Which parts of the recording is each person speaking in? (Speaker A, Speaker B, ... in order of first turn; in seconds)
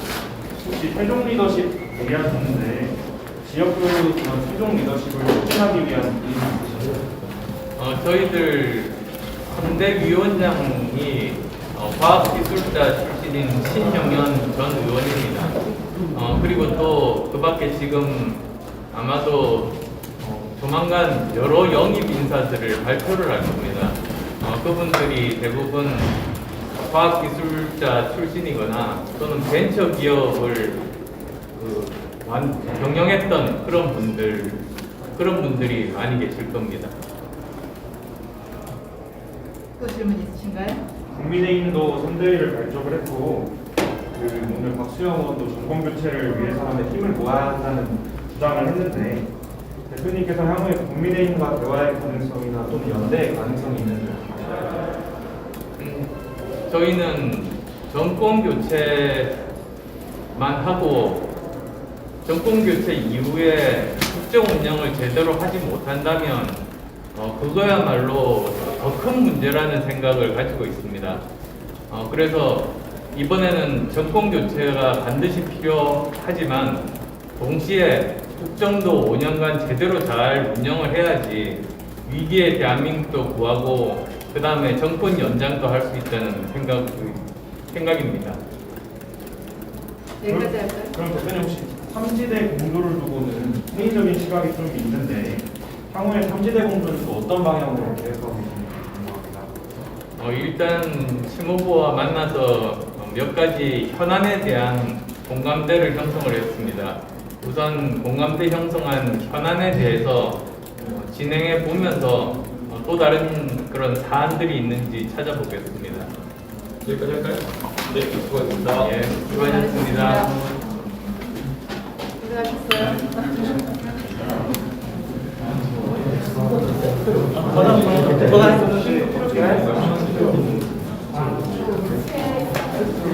Speaker A: 0.5-7.1, 41.1-43.5, 44.1-49.3, 49.9-54.9, 90.2-99.6, 127.5-130.5, 131.1-131.8
Speaker B: 7.8-15.6, 16.1-26.1, 26.8-30.8, 31.5-36.9, 55.8-56.1, 56.7-59.4, 60.3-61.3, 62.2-66.6, 67.1-71.2, 71.9-88.4, 100.2-116.1, 118.8-120.6
Speaker C: 39.8-40.8, 90.2-90.9, 119.3-120.3, 122.2-123.7
Speaker D: 116.8-118.9, 127.5-129.0